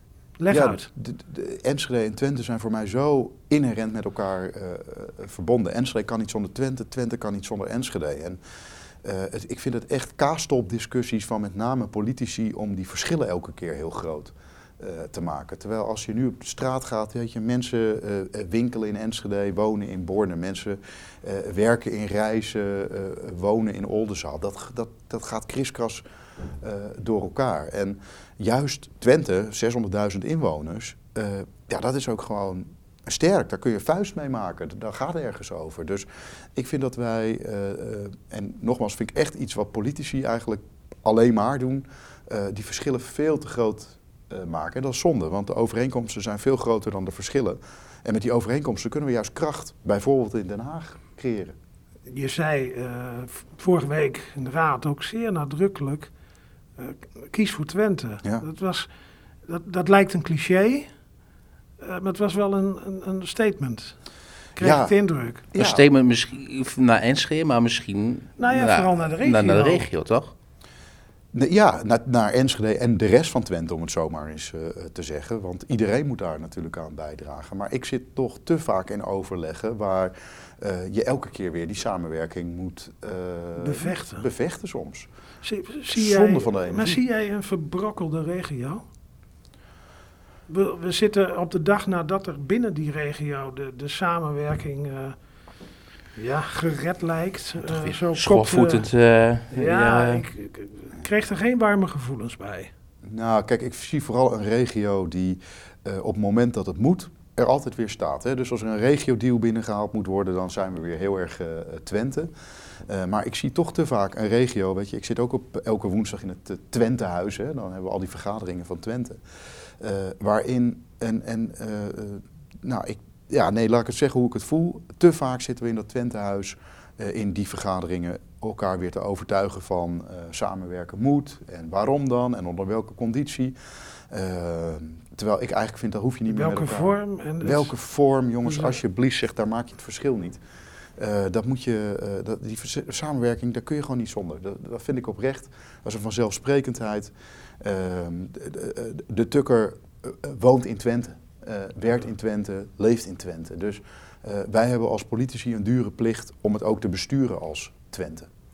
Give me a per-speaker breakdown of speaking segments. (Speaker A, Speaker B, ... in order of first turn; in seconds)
Speaker A: 0.4-0.9, 52.1-56.1, 56.8-58.9, 59.5-60.9, 61.8-64.0, 64.5-65.4, 68.4-69.9, 83.6-84.3, 85.4-88.8, 90.5-95.2, 96.1-98.9, 99.5-102.7, 136.3-137.7, 138.4-138.8
Speaker B: 0.5-8.4, 9.0-26.0, 26.6-51.5, 64.6-64.9, 65.5-65.8, 71.3-85.1, 85.9-87.0, 103.0-112.3, 112.8-119.2, 119.8-133.6, 134.1-140.4, 141.0-158.3
Speaker C: 65.5-70.3, 97.6-100.2